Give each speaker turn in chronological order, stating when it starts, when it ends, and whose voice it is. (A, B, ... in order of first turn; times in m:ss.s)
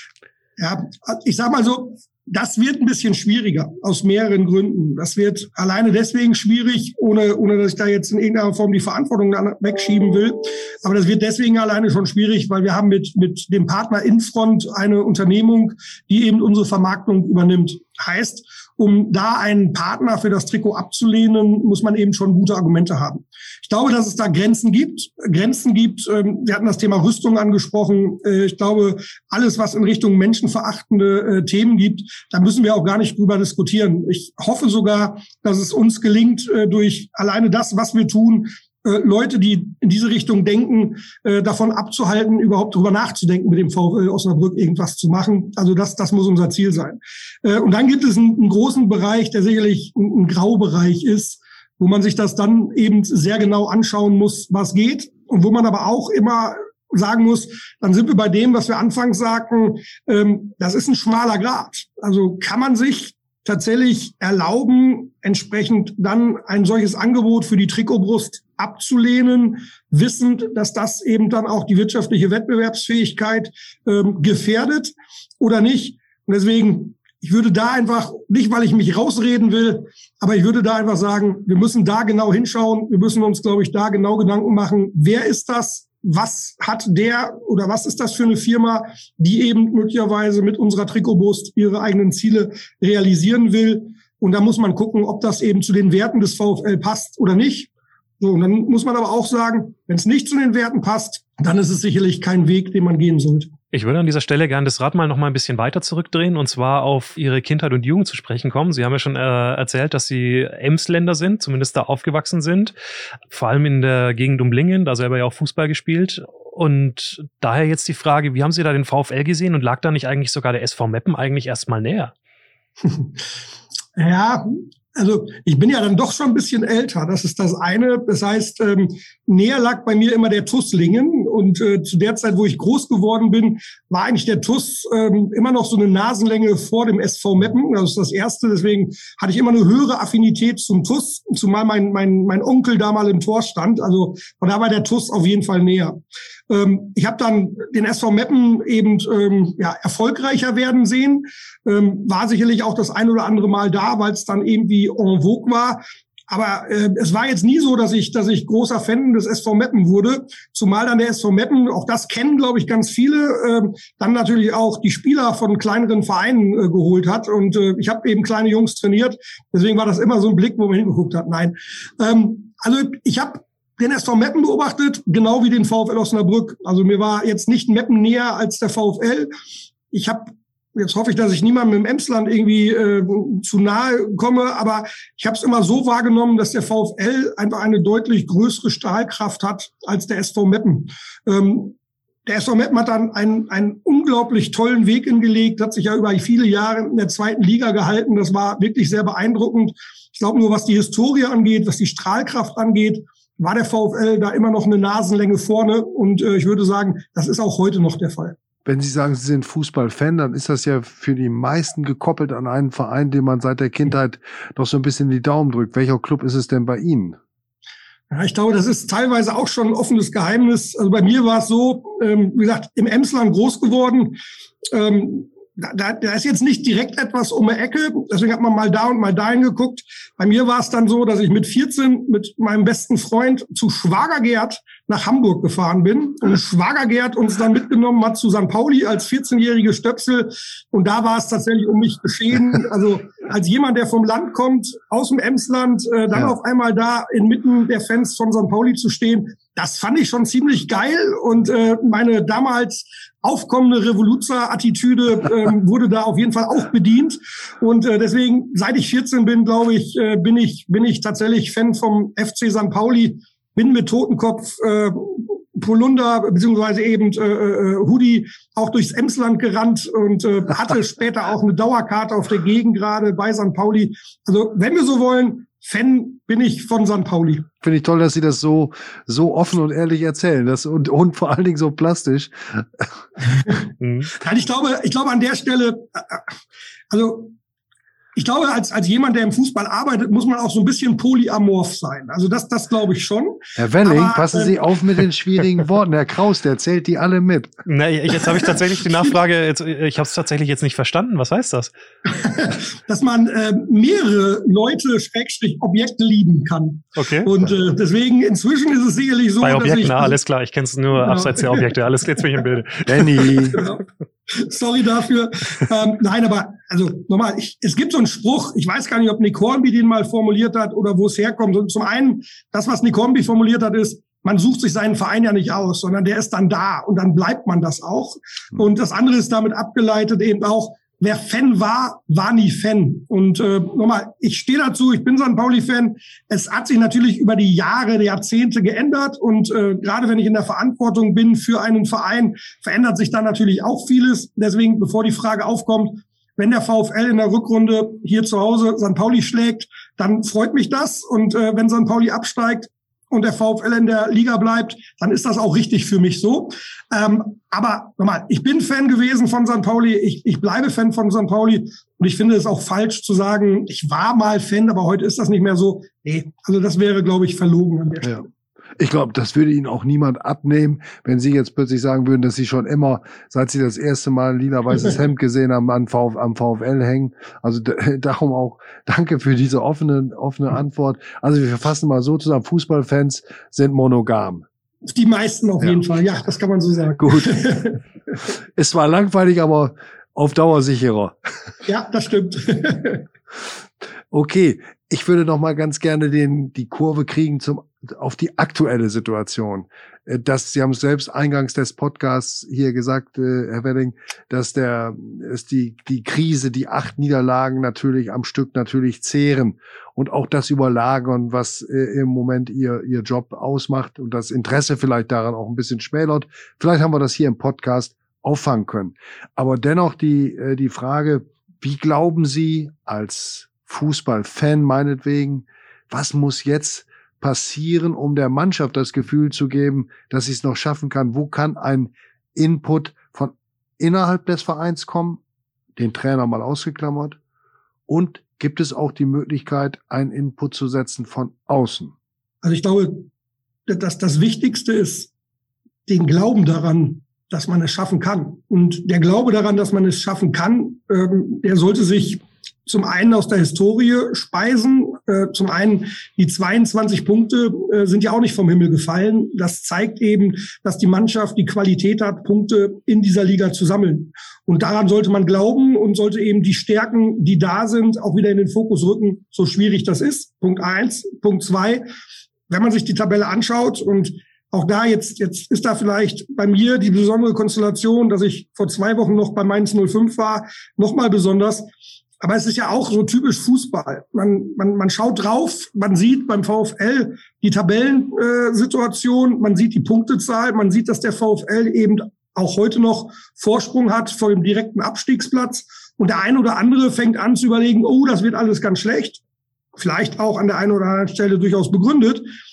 0:00.6-1:43.5 A
1:43.7-1:52.8 B
1:53.3-2:02.1 B
2:02.8-2:03.1 A
2:04.0-2:59.3 A
2:59.9-3:28.4 A
3:28.6-3:37.2 C
3:38.1-3:44.2 A
3:44.7-4:37.5 A
4:37.6-4:42.9 C
4:43.8-4:44.1 B
4:44.2-4:46.3 A
4:46.9-4:47.3 A
4:48.2-4:54.8 A
4:53.6-4:57.5 C
4:57.7-5:01.7 B
5:02.1-5:10.2 A
5:07.0-5:07.3 B
5:09.4-5:13.6 B
5:11.0-5:11.7 A
5:12.8-5:13.6 C
5:13.5-6:08.2 A
6:08.8-6:24.4 C
6:24.9-6:27.8 A
6:27.0-6:27.5 C
6:28.2-6:31.2 C
6:31.6-6:33.0 A
6:34.1-7:15.2 C
7:15.8-7:17.2 C
7:17.9-7:21.9 C
7:22.4-7:23.1 A
7:23.7-7:25.1 A
7:25.9-7:51.8 A
7:52.5-8:01.7 A
8:02.2-8:19.2 A
8:19.8-8:22.3 A